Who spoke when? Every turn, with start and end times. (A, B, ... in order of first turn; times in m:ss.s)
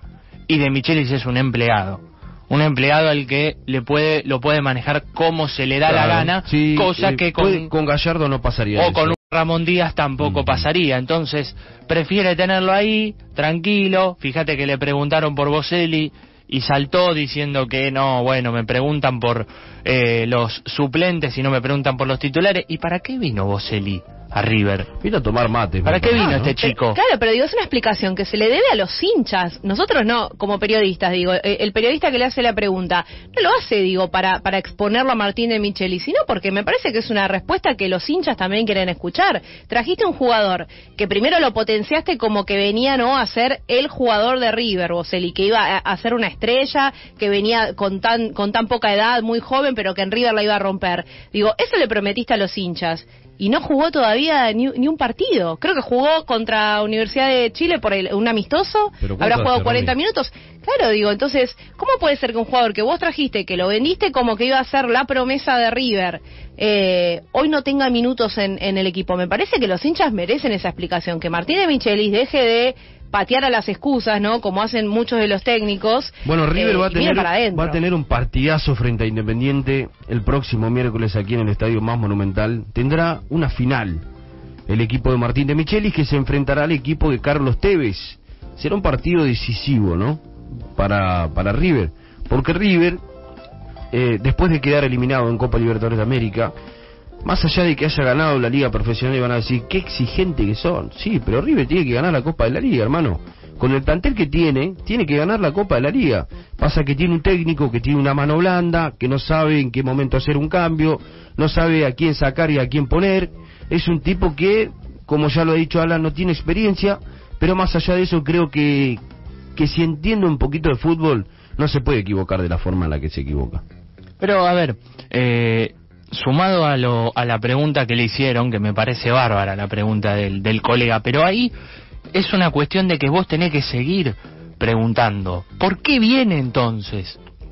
0:00.5-0:07.7 A
0:05.8-0:09.2 B
0:08.7-0:24.9 A
0:10.2-0:10.7 B
0:25.0-0:26.5 B
0:25.8-0:27.0 A
0:26.2-1:17.8 C
0:59.0-0:59.9 B
1:16.2-1:24.0 B
1:24.7-1:33.0 B
1:33.9-1:36.5 B
1:37.2-1:59.0 B
1:59.6-2:03.6 B
2:04.2-2:11.5 A
2:12.1-2:17.2 A